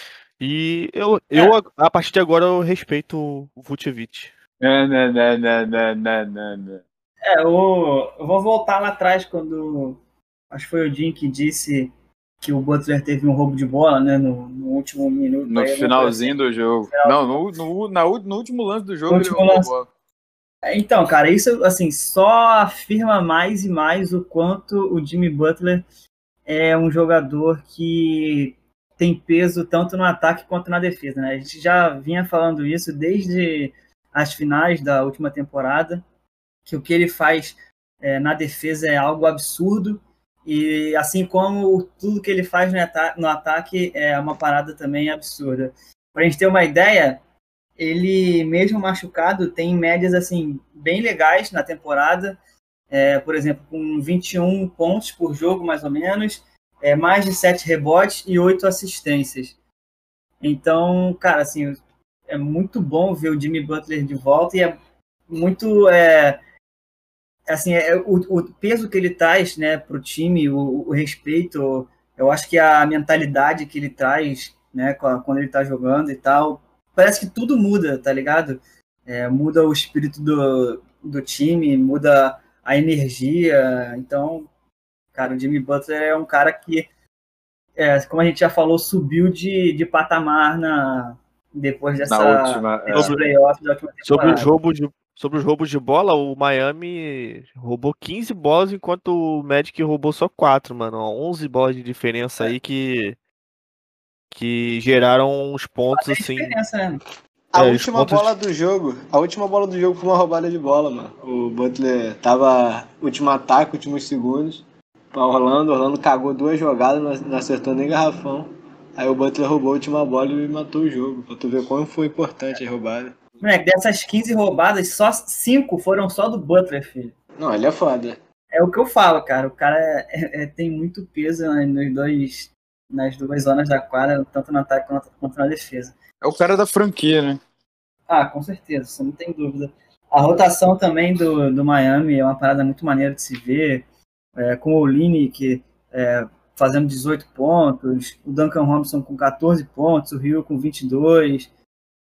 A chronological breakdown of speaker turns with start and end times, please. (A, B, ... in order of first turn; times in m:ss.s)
0:00.4-0:04.3 A
0:04.6-0:06.8 B
0:07.3-0:10.0 C
0:10.5-0:16.4 C
0:15.5-0:19.9 B
0:16.9-0:17.4 C
0:19.1-0:19.7 C
0:20.6-0:25.8 C
0:26.5-0:36.0 C
0:36.7-0:47.2 C
0:47.8-0:52.4 C
0:52.9-0:59.6 C
1:00.4-1:01.8 C
1:02.3-1:04.8 C
1:05.3-1:06.4 C
1:07.5-1:24.5 C
1:25.1-1:26.9 C
1:27.8-1:34.5 C
1:32.1-1:33.2 B
1:32.9-1:33.3 A
1:34.0-1:43.2 A
1:44.3-1:46.6 A
1:45.9-1:47.0 C
1:47.5-2:03.2 D
1:47.6-1:48.3 A
2:03.4-2:07.1 C
2:07.4-2:08.2 D
2:08.5-2:15.9 C
2:16.2-2:17.4 B
2:18.1-2:23.8 C
2:24.4-2:31.5 C